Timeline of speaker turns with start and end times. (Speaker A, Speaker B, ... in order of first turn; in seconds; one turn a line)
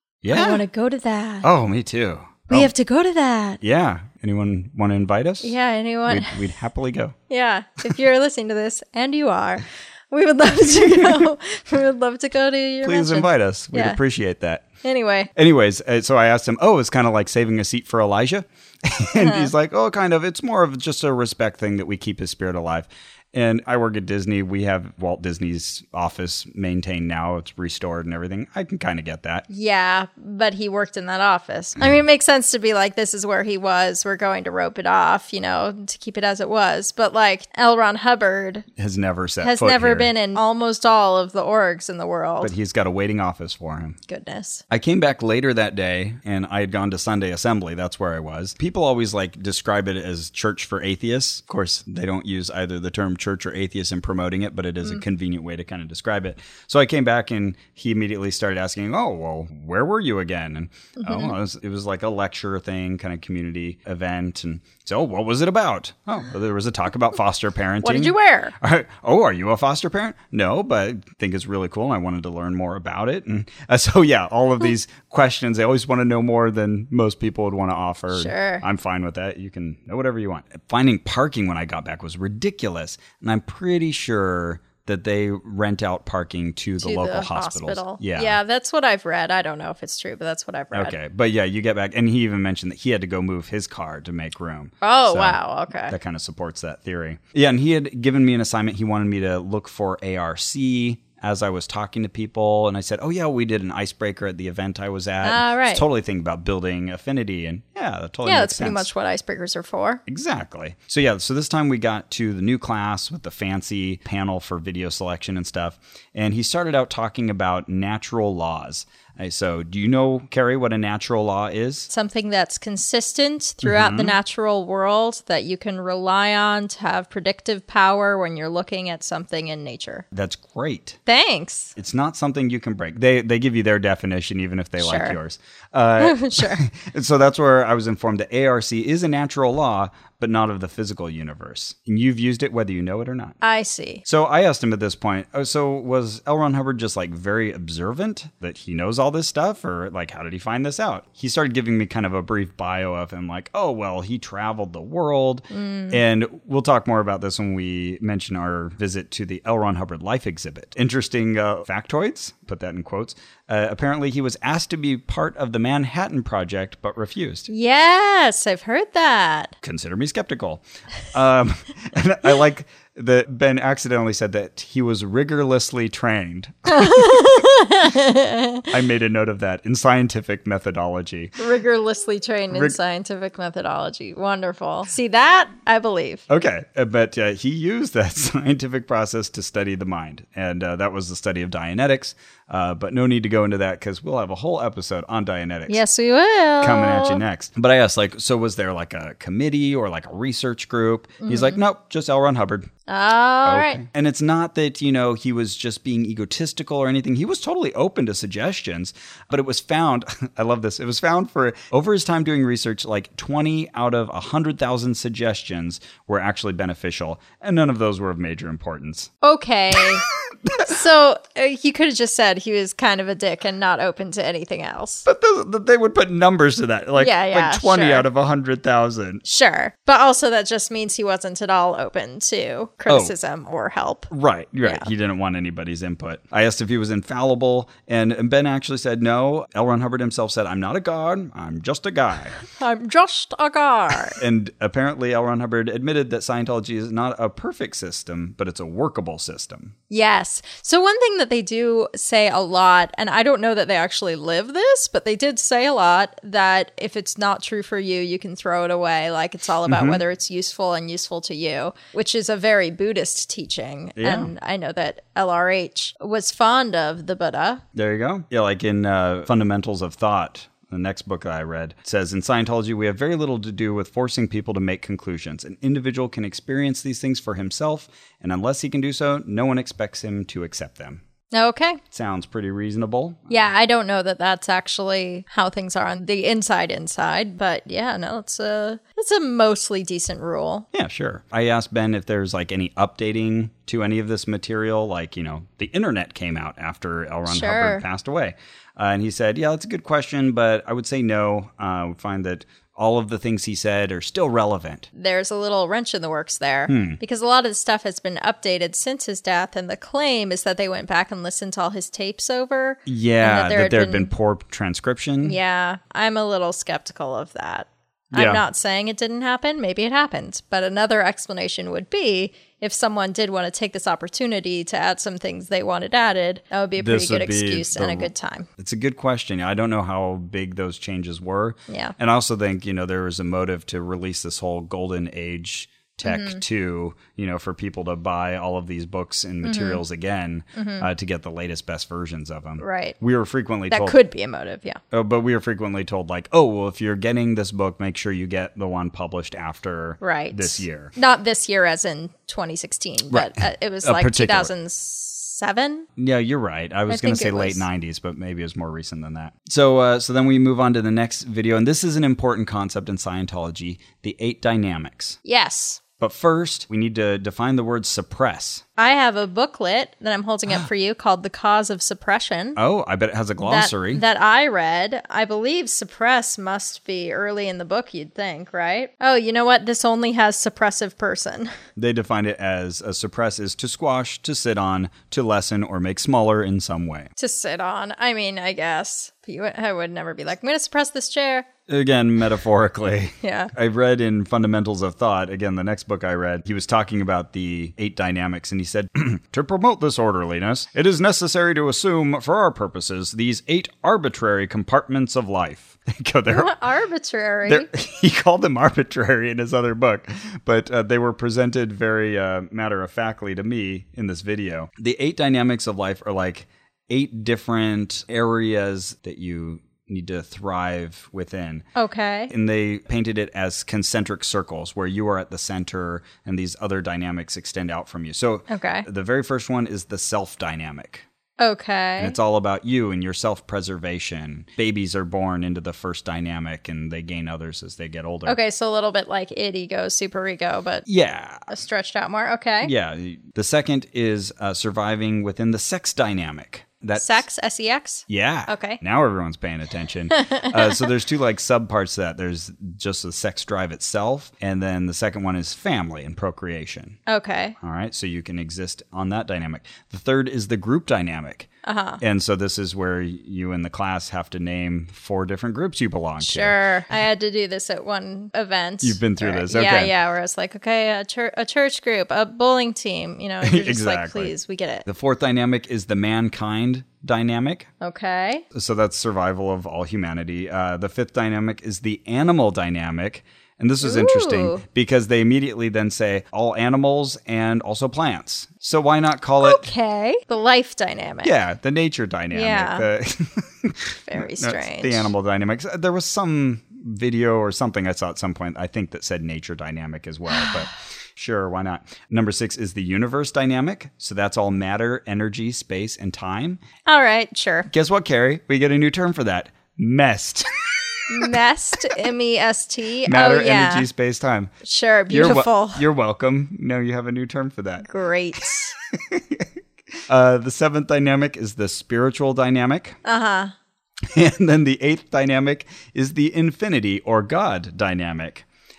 Speaker A: 0.2-0.6
Speaker B: 0.3-1.5
Speaker A: 1.4-2.7
Speaker B: 2.5-3.6
Speaker A: 3.6-7.1
Speaker B: 5.4-6.4
Speaker B: 7.3-14.0
Speaker A: 10.8-11.3
Speaker A: 12.8-14.7
Speaker B: 14.8-15.3
Speaker A: 15.3-29.4
Speaker B: 19.1-19.5
Speaker B: 29.5-38.6
Speaker A: 38.8-40.1
Speaker B: 39.4-42.5
Speaker A: 42.4-44.0
Speaker B: 44.1-44.6
Speaker A: 44.7-88.4
Speaker B: 61.0-61.3
Speaker B: 67.8-68.5
Speaker B: 78.1-78.6
Speaker B: 86.8-90.9
Speaker A: 90.7-108.9
Speaker B: 94.8-95.9
Speaker B: 105.2-105.8
Speaker B: 108.2-110.0
Speaker A: 110.0-121.9
Speaker B: 121.9-130.0
Speaker A: 123.6-124.2
Speaker A: 130.1-131.0
Speaker B: 131.1-131.7
Speaker A: 131.8-143.4
Speaker B: 134.8-135.2
Speaker B: 136.0-136.6
Speaker B: 143.4-144.0
Speaker A: 144.0-167.5
Speaker B: 155.5-156.0
Speaker B: 167.5-169.5
Speaker A: 169.6-177.4
Speaker B: 176.7-178.7
Speaker A: 178.7-181.4
Speaker B: 181.4-186.2
Speaker A: 182.5-182.8
Speaker A: 186.3-195.8
Speaker B: 195.7-197.2
Speaker A: 196.6-202.7
Speaker B: 201.2-201.6
Speaker B: 202.9-203.8
Speaker A: 203.4-219.1
Speaker B: 219.2-220.0
Speaker A: 220.4-220.8
Speaker B: 220.6-225.1
Speaker A: 225.1-229.2
Speaker B: 227.0-228.1
Speaker B: 229.2-234.1
Speaker A: 232.9-233.1
Speaker A: 234.1-242.4
Speaker B: 234.6-234.9
Speaker B: 242.5-244.2
Speaker A: 244.1-249.7
Speaker B: 249.9-267.6
Speaker A: 259.6-260.0
Speaker A: 264.0-264.3
Speaker A: 267.7-281.0
Speaker B: 281.3-281.8
Speaker A: 281.9-283.4
Speaker B: 283.3-290.6
Speaker A: 290.7-304.9
Speaker B: 297.3-297.8
Speaker B: 304.9-314.1
Speaker A: 306.7-307.0
Speaker A: 312.9-315.4
Speaker B: 315.2-328.5
Speaker A: 318.1-318.4
Speaker A: 326.8-344.0
Speaker B: 331.7-331.9
Speaker B: 336.0-336.4
Speaker B: 339.4-339.8
Speaker B: 340.5-340.9
Speaker B: 342.6-342.9
Speaker B: 343.7-344.8
Speaker A: 344.9-350.9
Speaker B: 350.0-355.9
Speaker A: 353.1-354.5
Speaker A: 356.0-365.2
Speaker B: 356.9-357.6
Speaker B: 365.2-365.8
Speaker A: 366.0-368.6
Speaker B: 368.8-372.6
Speaker A: 372.6-374.0
Speaker B: 373.4-381.5
Speaker A: 381.8-387.1
Speaker B: 387.2-391.5
Speaker A: 391.7-406.5
Speaker B: 393.2-393.5
Speaker B: 406.3-407.7
Speaker A: 407.4-421.6
Speaker B: 421.8-422.3
Speaker A: 422.3-431.1
Speaker B: 428.5-428.9
Speaker B: 431.4-432.2
Speaker A: 432.0-438.4
Speaker B: 438.2-440.8
Speaker A: 440.9-441.5
Speaker B: 441.5-442.7
Speaker A: 442.6-447.2
Speaker B: 446.9-448.8
Speaker A: 448.1-457.0
Speaker B: 450.1-450.8
Speaker B: 457.1-457.6
Speaker A: 457.6-461.5
Speaker B: 461.6-462.0
Speaker A: 462.0-466.6
Speaker B: 466.2-474.8
Speaker A: 468.8-469.9
Speaker A: 473.4-474.3
Speaker A: 474.8-477.7
Speaker B: 477.8-478.4
Speaker A: 478.5-489.7
Speaker B: 483.8-484.6
Speaker B: 489.4-491.3
Speaker A: 491.2-506.6
Speaker B: 492.3-492.9
Speaker B: 494.1-495.1
Speaker B: 500.3-500.6
Speaker B: 506.9-507.7
Speaker A: 507.7-511.3
Speaker B: 511.1-513.9
Speaker A: 513.0-514.5
Speaker B: 514.6-515.9
Speaker A: 515.1-519.4
Speaker B: 517.8-518.7
Speaker A: 520.1-523.0
Speaker B: 523.0-523.5
Speaker A: 524.1-528.4